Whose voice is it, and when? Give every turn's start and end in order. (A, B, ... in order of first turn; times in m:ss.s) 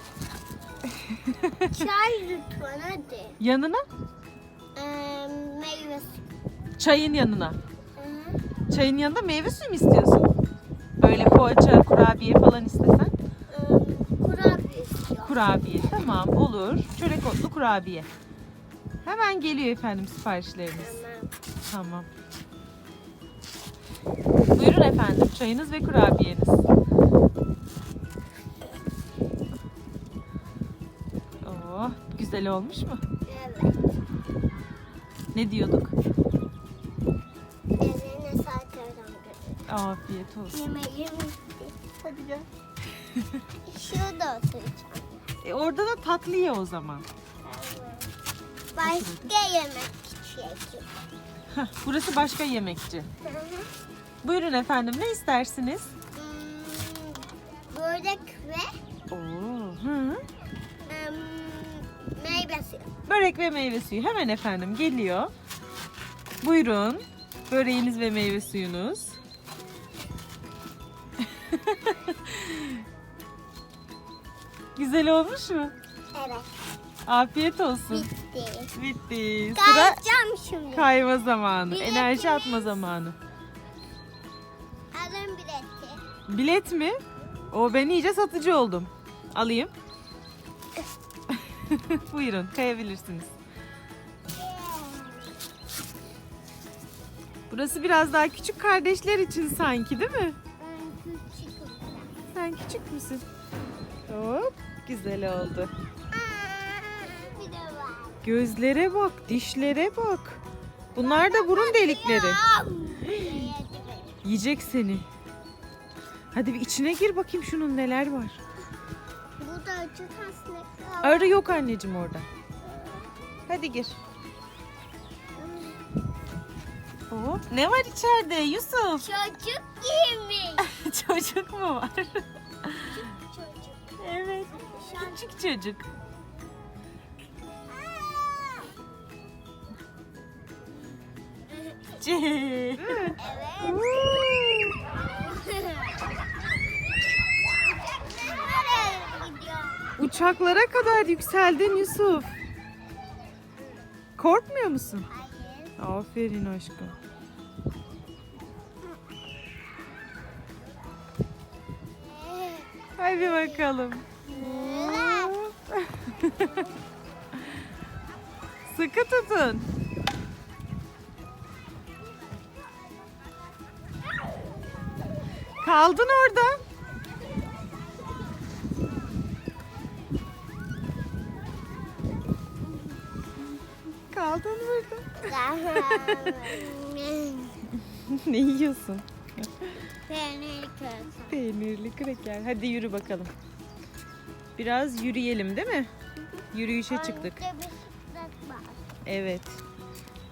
0:01.0-0:01.8 A
0:01.7-0:03.4 B
0:03.4-0:03.8 A
0:04.7-0:06.2 B
0:06.8-0:07.6 A
0:08.0-0:08.4 B
0:08.7-0:10.3 A
0:11.0-0:13.1 A
0:13.5-0:16.0 B
0:15.2-0:18.1 A
0:19.0-0:20.9 A
0:20.8-0:21.3 B
0:21.6-0:22.1 A
0:24.5-0:26.6 A
0:31.4-0:33.0 A
0:33.2-0:33.8 B
0:35.3-0:35.9 A
0:37.8-0:39.6 B
0:39.7-0:40.6 A
0:40.5-0:41.9 B
0:42.0-0:42.5 A
0:43.7-0:45.3 B
0:45.4-0:47.0 A
0:47.4-0:48.1 B
0:48.7-0:50.8 B
0:48.8-0:49.3 A
0:51.5-0:53.1 A
0:53.2-0:53.7 B
0:54.2-0:55.9 A
0:56.1-0:58.7 B
0:59.1-1:00.2 A
1:00.8-1:02.9 B
1:03.0-1:05.3 A
1:06.4-1:09.2 A
1:11.4-1:12.8 A
1:14.8-1:15.7 A
1:16.1-1:16.5 B
1:17.0-1:18.1 A
1:17.9-1:18.7 B
1:18.7-1:20.0 A
1:19.5-1:20.9 B
1:20.7-1:23.2 A
1:21.7-1:22.8 B
1:24.9-1:26.0 B
1:26.3-1:27.0 A
1:27.5-1:29.7 A
1:31.3-1:33.3 A
1:34.3-1:35.4 B
1:37.5-1:40.4 A
1:40.6-1:42.1 B
1:42.3-1:43.2 A
1:44.1-1:45.7 A
1:46.1-1:48.2 B
1:48.2-1:50.4 A
1:50.9-1:52.4 A
1:50.9-1:54.1 B
1:54.2-1:55.0 A
1:56.3-1:58.4 A
1:59.4-2:01.4 B
2:01.0-2:02.2 A
2:02.6-2:03.1 B
2:03.5-2:04.0 A
2:05.4-2:05.8 B
2:07.1-2:09.0 A
2:09.0-2:10.7 B
2:10.6-2:13.0 A
2:12.8-2:14.0 B
2:14.0-2:15.8 A
2:14.5-2:15.2 B
2:17.7-2:18.8 B
2:22.0-2:24.8 A
2:23.0-2:24.6 B
2:25.1-2:26.0 B
2:27.6-2:29.9 B
2:30.0-2:32.4 A
2:34.2-2:35.1 A
2:35.1-2:35.7 B
2:35.8-2:36.9 A
2:42.0-2:45.4 B
2:43.0-2:46.6 A
2:48.7-2:49.7 A
2:55.6-2:56.6 A
3:04.1-3:06.6 A
3:05.2-3:07.6 B
3:07.8-3:09.8 A
3:10.1-3:11.4 B
3:11.3-3:13.3 A
3:14.6-3:15.9 A
3:16.5-3:17.4 A
3:16.9-3:18.8 B
3:19.0-3:19.6 A